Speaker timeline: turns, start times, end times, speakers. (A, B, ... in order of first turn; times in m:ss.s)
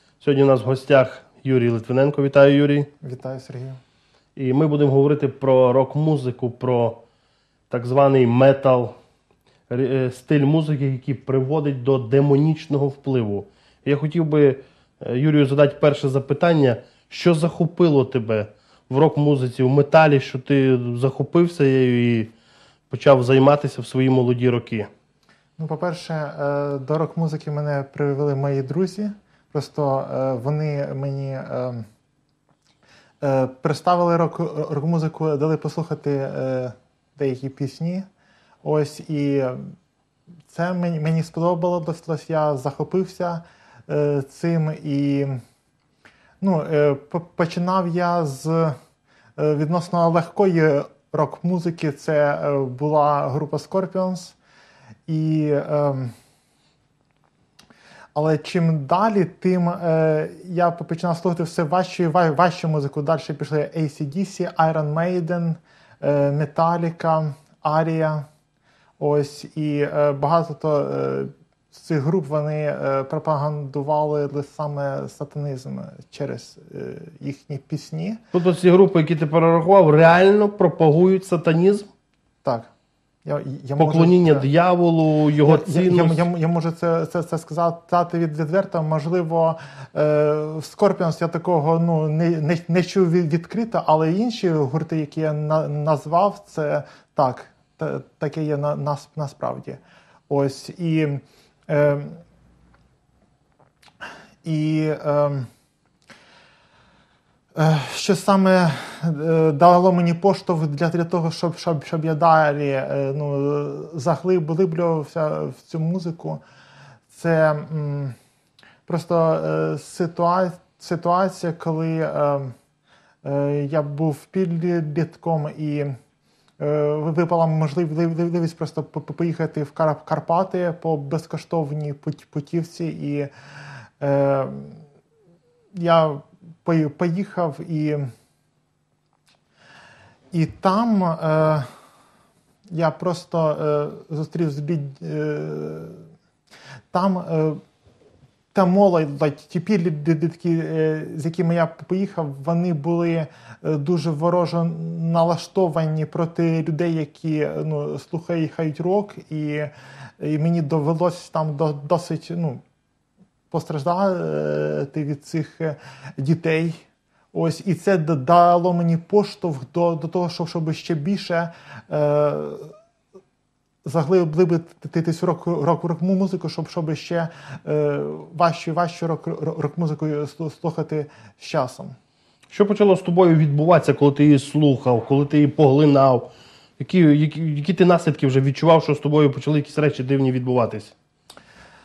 0:00.2-0:02.9 A
0:03.0-0:03.8 B
0:04.4-0:07.0 A
0:07.7-0:09.0 A
0:09.7-0:22.3 A
0:22.9-0:24.9 A
0:25.6-0:31.9 B
0:33.2-0:38.1 B
0:38.6-0:39.7 B
0:40.5-0:45.4 B
0:46.4-0:48.8 B
0:49.4-0:54.4 B
0:55.1-0:56.1 B
0:58.2-1:08.3 B
1:09.0-1:18.2 B
1:18.3-1:21.9 A
1:22.4-1:22.7 B
1:23.2-1:24.5 B
1:23.8-1:26.2 A
1:25.4-1:42.2 B
1:44.4-1:45.5 B
1:47.6-1:56.4 B
1:57.1-1:58.2 B
1:58.9-2:02.5 B
2:03.2-2:06.0 B
2:06.6-2:13.3 B
2:14.0-2:14.8 B
2:15.8-2:18.1 B
2:20.3-2:21.7 B
2:22.7-2:26.0 B
2:26.9-2:27.6 B
2:28.5-2:42.6 B
2:43.5-2:46.8 B
2:47.3-2:52.7 B
2:53.8-3:02.0 B
3:02.5-3:11.0 A